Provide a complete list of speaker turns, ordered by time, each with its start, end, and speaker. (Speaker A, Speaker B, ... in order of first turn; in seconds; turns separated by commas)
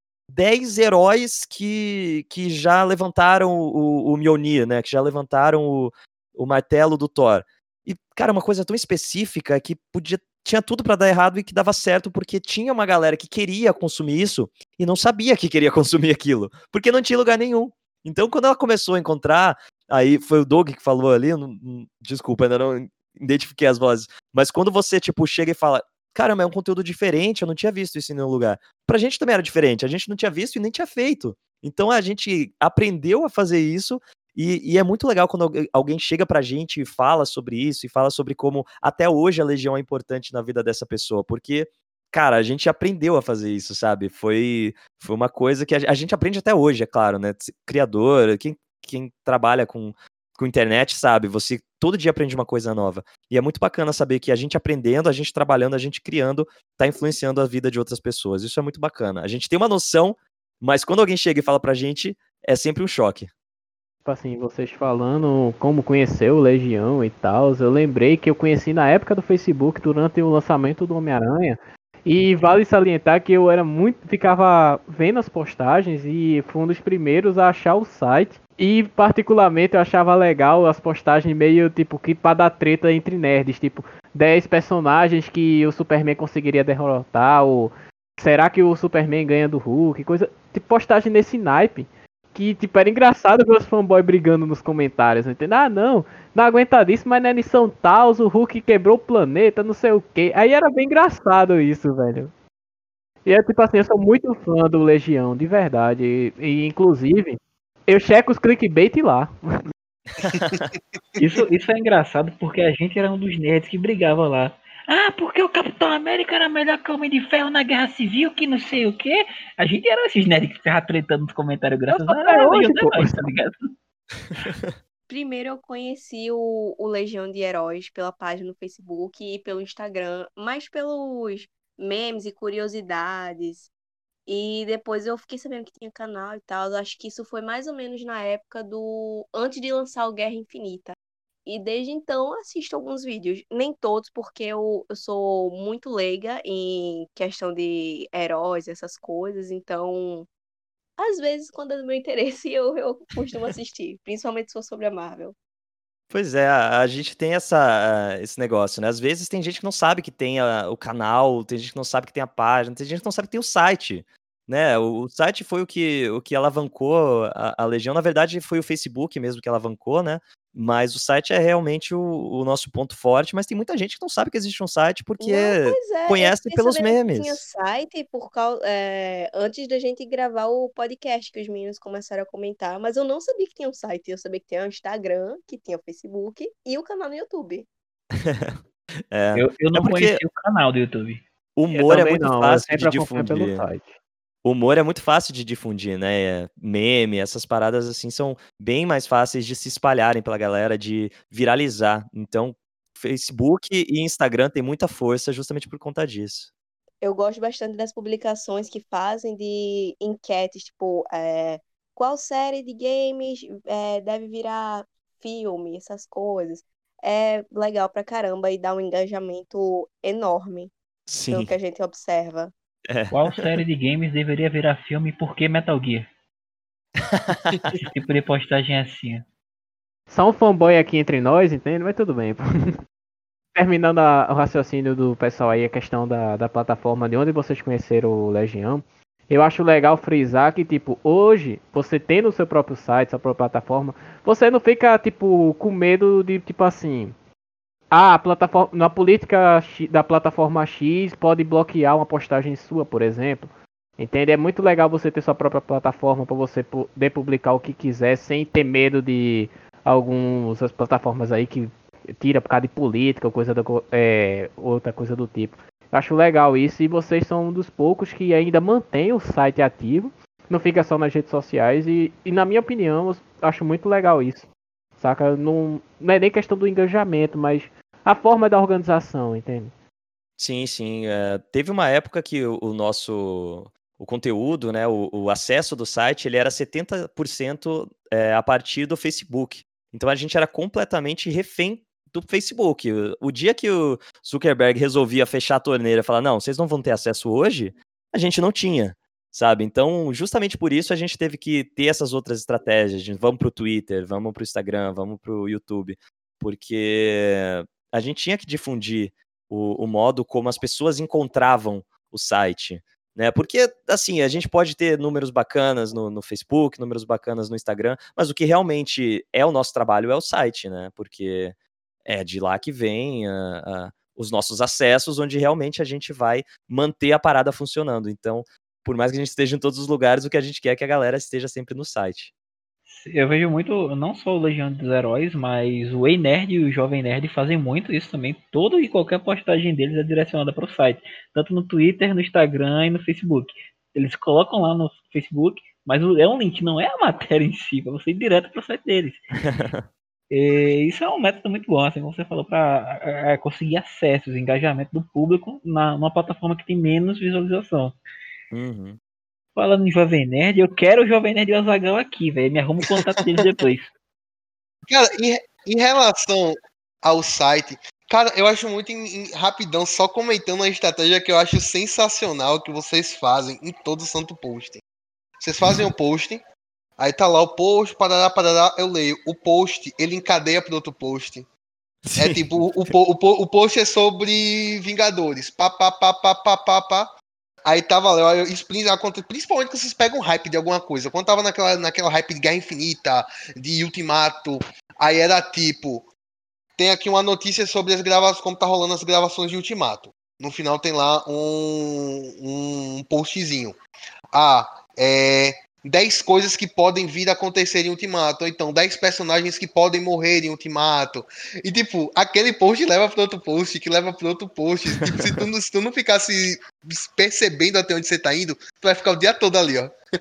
Speaker A: 0.3-63.3, Speaker B: 64.0-102.3, Speaker B: 103.2-109.6, Speaker A: 110.2-110.7, Speaker C: 110.3-110.6, Speaker D: 111.2-123.7, Speaker B: 121.9-123.3, Speaker A: 124.4-124.8, Speaker E: 125.1-133.7, Speaker E: 134.3-150.3, Speaker E: 151.0-155.3, Speaker A: 156.1-177.4, Speaker E: 175.2-187.7, Speaker A: 188.2-188.6, Speaker A: 189.1-190.2, Speaker D: 189.3-191.2, Speaker A: 191.6-193.6, Speaker B: 191.7-194.0, Speaker A: 194.4-206.5, Speaker E: 207.0-220.7, Speaker A: 221.1-221.5, Speaker E: 221.3-222.5, Speaker A: 222.9-223.6, Speaker D: 223.1-226.1, Speaker A: 227.0-227.8, Speaker D: 227.7-229.2, Speaker B: 230.1-232.7, Speaker B: 233.5-247.1, Speaker B: 247.9-279.7, Speaker A: 280.4-321.6, Speaker A: 322.1-332.3, Speaker D: 332.9-349.2, Speaker A: 349.4-349.9, Speaker D: 350.3-358.0, Speaker A: 358.5-359.0, Speaker D: 359.6-363.9, Speaker C: 364.9-374.8, Speaker C: 375.4-376.4, Speaker C: 377.0-381.5, Speaker A: 382.0-382.9, Speaker C: 382.2-387.1, Speaker C: 387.6-396.1, Speaker C: 396.8-403.8, Speaker C: 404.3-419.9, Speaker A: 415.0-415.4